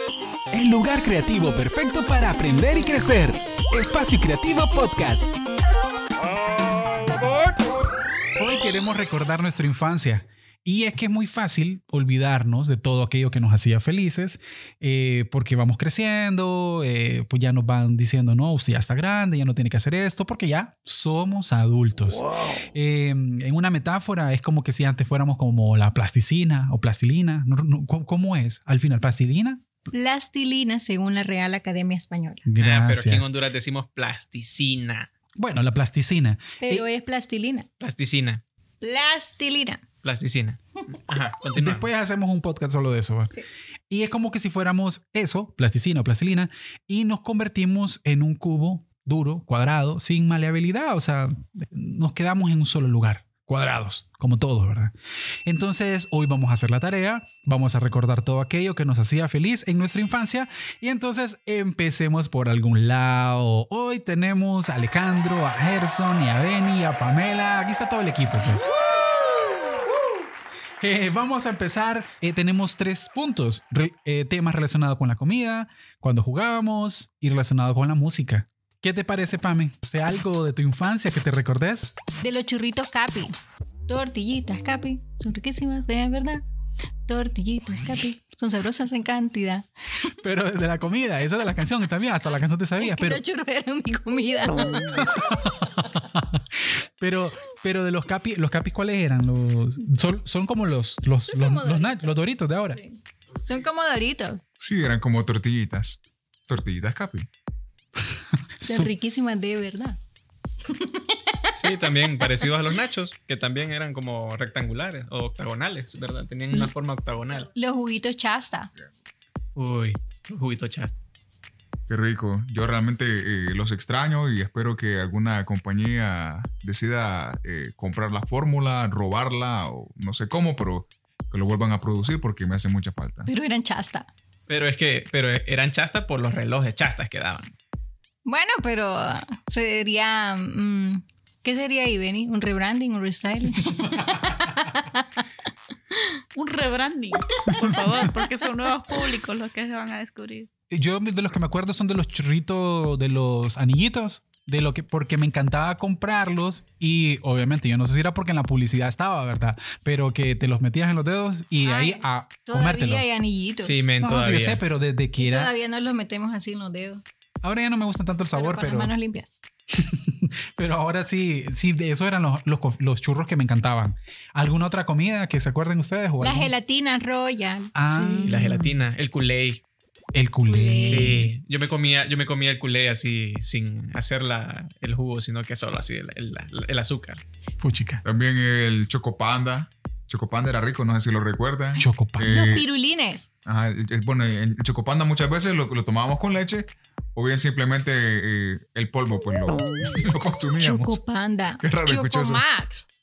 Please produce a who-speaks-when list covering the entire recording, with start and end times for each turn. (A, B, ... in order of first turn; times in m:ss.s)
0:00.5-0:05.3 A
0:08.4-0:22.2 A
0:22.7-0:29.6 A
0:29.9-0:32.4 B
0:32.4-0:33.3 A
0:32.6-0:35.1 C
0:35.4-0:36.9 A
0:36.6-0:37.7 B
0:37.8-0:38.4 C
0:38.8-0:39.8 B
0:40.0-0:41.9 C
0:41.6-0:43.4 A
0:43.9-0:54.9 A
0:55.5-1:08.7 A
1:10.8-1:21.9 A
1:22.2-1:23.4 B
1:23.9-1:26.4 B
1:27.1-1:29.7 B
1:30.2-1:33.2 A
1:32.8-1:35.3 B
1:35.0-1:42.8 A
1:41.3-1:44.4 B
1:44.6-1:47.3 D
1:48.6-1:48.9 A
1:48.7-1:50.0 B
1:50.7-1:51.9 B
1:51.5-1:57.5 C
1:57.5-1:58.7 B
1:59.6-2:01.0 C
2:01.9-2:13.3 D
2:13.3-2:14.1 B
2:14.5-2:17.5 C
2:18.2-2:25.2 B
2:23.6-2:24.5 A
2:26.4-2:30.5 E
2:30.7-2:43.0 A
2:41.6-2:43.8 B
2:43.6-2:44.6 C
2:44.0-2:45.5 A
2:45.2-2:47.0 B
2:47.4-2:48.9 A
2:48.4-2:49.3 B
2:49.7-2:56.5 A
2:56.2-2:57.7 B
2:57.8-2:58.7 A
2:57.9-2:59.6 C
3:00.2-3:01.3 A
3:00.5-3:01.3 B
3:00.9-3:07.2 C
3:07.6-3:08.0 A
3:08.0-3:12.7 D
3:11.8-3:12.6 A
3:12.3-3:13.3 B
3:13.4-3:21.0 D
3:20.6-3:22.9 B
3:21.6-3:22.4 D